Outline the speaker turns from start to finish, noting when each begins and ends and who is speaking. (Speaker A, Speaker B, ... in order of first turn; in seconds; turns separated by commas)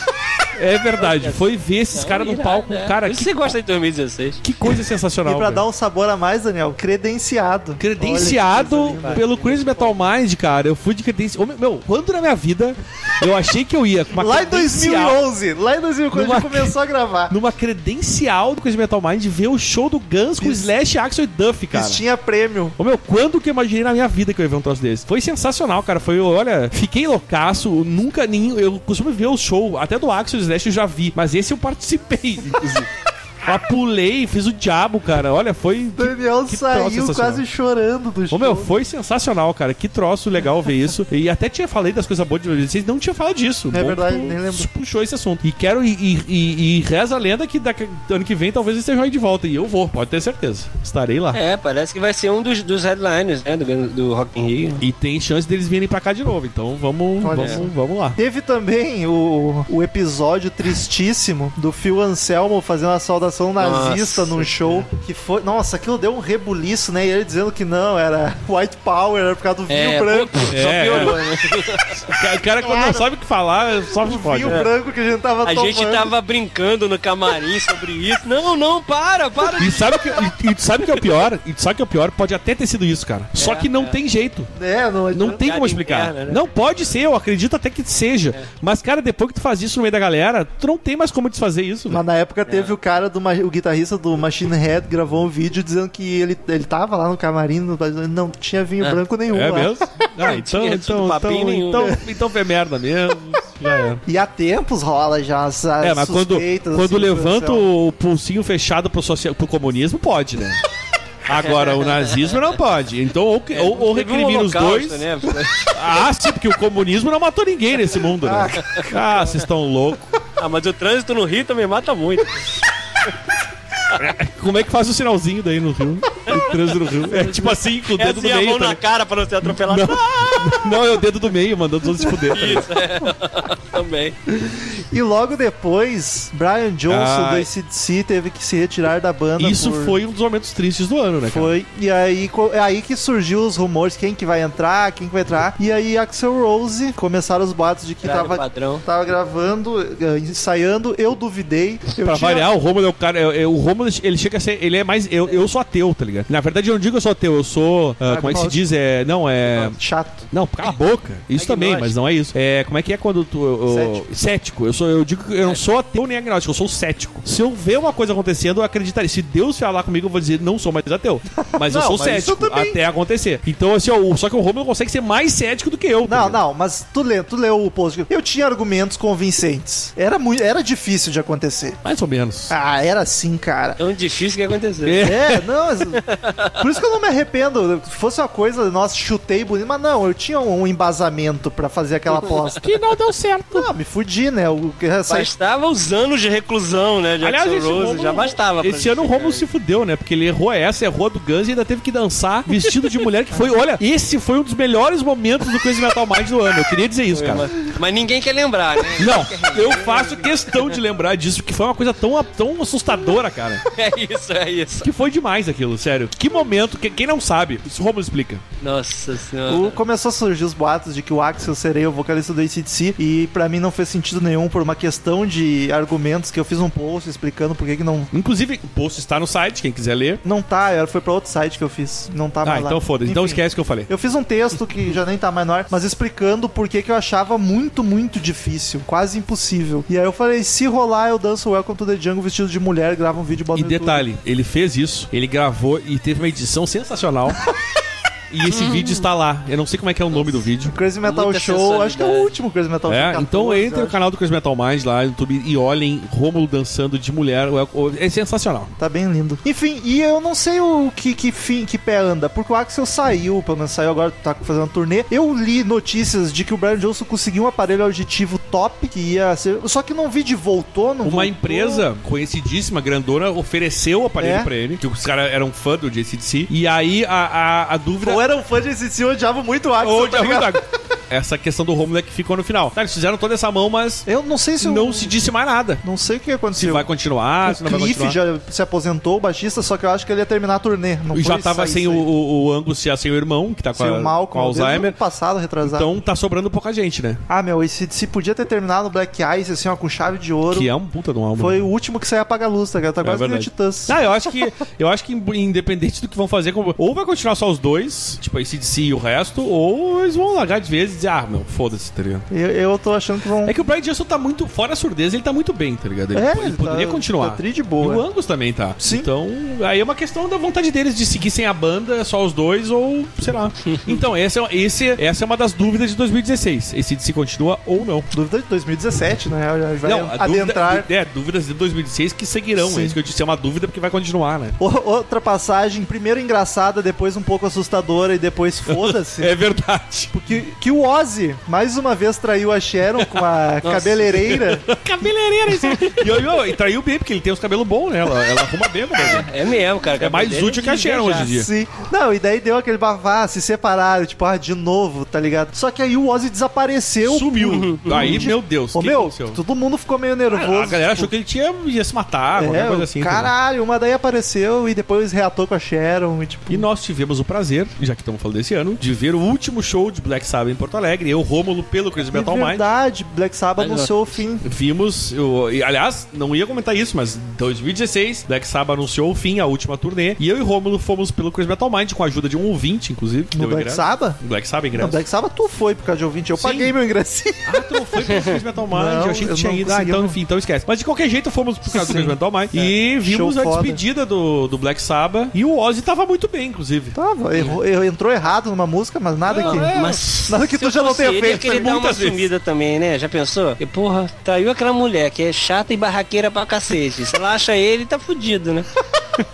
Speaker A: 0.6-3.5, Speaker B: 1.0-4.4, Speaker A: 4.4-5.6, Speaker C: 5.2-9.3, Speaker A: 7.8-15.2, Speaker B: 8.8-9.9, Speaker C: 14.1-17.4, Speaker A: 16.1-16.7, Speaker A: 17.3-22.0, Speaker C: 20.4-20.7, Speaker C: 21.7-22.8, Speaker A: 22.8-32.9, Speaker A: 33.4-37.4, Speaker C: 36.0-38.7, Speaker A: 38.3-51.4, Speaker C: 43.7-44.7, Speaker B: 51.3-54.8, Speaker A: 54.8-58.2, Speaker C: 57.2-71.2, Speaker B: 57.4-57.6, Speaker B: 63.6-64.9, Speaker B: 69.7-72.0, Speaker A: 70.5-71.2, Speaker A: 72.0-74.6, Speaker C: 72.6-73.1, Speaker C: 73.9-76.1, Speaker B: 75.4-80.2, Speaker A: 79.6-84.5, Speaker B: 83.4-84.0, Speaker C: 84.5-85.5, Speaker A: 85.1-92.0, Speaker B: 85.4-86.9, Speaker C: 91.9-100.0, Speaker B: 92.5-92.7, Speaker A: 99.3-104.0, Speaker B: 100.2-102.0, Speaker C: 104.1-107.7, Speaker A: 105.8-110.6, Speaker A: 111.3-115.0, Speaker B: 111.4-112.3, Speaker B: 113.5-115.7, Speaker A: 115.7-120.1, Speaker C: 118.3-118.5, Speaker B: 118.5-119.2, Speaker B: 120.4-122.4, Speaker A: 124.0-128.8, Speaker B: 126.3-130.3, Speaker A: 129.4-132.7, Speaker B: 132.3-134.2, Speaker C: 134.3-140.0, Speaker A: 136.9-137.5, Speaker A: 139.4-141.5, Speaker C: 141.3-152.5, Speaker B: 148.0-148.8, Speaker A: 152.0-159.8, Speaker C: 158.0-158.6, Speaker C: 159.5-160.3, Speaker A: 160.3-176.4, Speaker B: 161.3-161.9, Speaker C: 163.7-164.0, Speaker C: 171.4-172.8, Speaker C: 176.1-181.8, Speaker A: 181.8-182.5, Speaker C: 182.5-183.8, Speaker B: 183.8-185.0, Speaker A: 184.8-185.4, Speaker C: 185.0-186.0, Speaker B: 186.1-186.6, Speaker C: 186.6-192.8, Speaker A: 192.5-193.7, Speaker C: 193.5-195.3, Speaker B: 195.1-199.4, Speaker A: 197.2-207.5, Speaker B: 207.1-210.8, Speaker A: 209.0-213.6, Speaker B: 213.7-214.9, Speaker A: 214.8-218.4, Speaker B: 218.6-219.8, Speaker C: 219.5-228.1, Speaker A: 228.1-230.2, Speaker C: 230.2-244.1, Speaker A: 232.4-233.9, Speaker A: 243.5-247.5, Speaker A: 248.3-250.8, Speaker B: 248.4-249.1, Speaker B: 250.1-250.5, Speaker C: 250.7-254.0, Speaker B: 251.0-252.3, Speaker A: 252.9-258.7, Speaker C: 258.8-271.9, Speaker A: 271.1-278.2, Speaker C: 274.2-274.5, Speaker C: 278.0-280.6, Speaker A: 279.8-284.1, Speaker C: 284.1-285.1, Speaker A: 284.6-285.8, Speaker C: 285.8-286.9, Speaker A: 286.5-288.2, Speaker C: 287.4-292.1, Speaker A: 291.1-295.0, Speaker C: 293.8-295.9, Speaker A: 295.6-297.2, Speaker C: 297.3-300.7, Speaker A: 300.5-301.6, Speaker C: 301.4-304.5, Speaker A: 303.0-312.2, Speaker C: 312.3-313.6, Speaker A: 313.4-328.1, Speaker C: 316.1-318.1, Speaker C: 318.8-319.1, Speaker C: 328.1-330.9, Speaker A: 329.8-334.6, Speaker C: 332.6-333.0, Speaker C: 334.6-339.3, Speaker A: 338.7-340.2, Speaker C: 340.1-344.7, Speaker B: 343.6-344.1, Speaker A: 344.1-349.3, Speaker B: 349.0-351.3, Speaker A: 350.0-351.5, Speaker C: 351.1-361.1, Speaker A: 357.1-359.4, Speaker B: 357.4-358.1, Speaker A: 360.3-363.3, Speaker C: 362.3-366.7, Speaker A: 366.5-372.6, Speaker C: 372.1-374.4, Speaker B: 373.6-374.1, Speaker A: 374.4-385.0, Speaker C: 383.3-384.2, Speaker C: 384.8-387.7, Speaker A: 386.4-386.7, Speaker A: 387.4-397.0, Speaker B: 388.1-388.4, Speaker C: 388.7-390.2, Speaker C: 391.7-392.2, Speaker C: 393.0-393.8, Speaker C: 397.0-399.7, Speaker A: 399.3-400.1, Speaker B: 399.4-408.7, Speaker C: 400.3-401.7, Speaker A: 401.3-402.3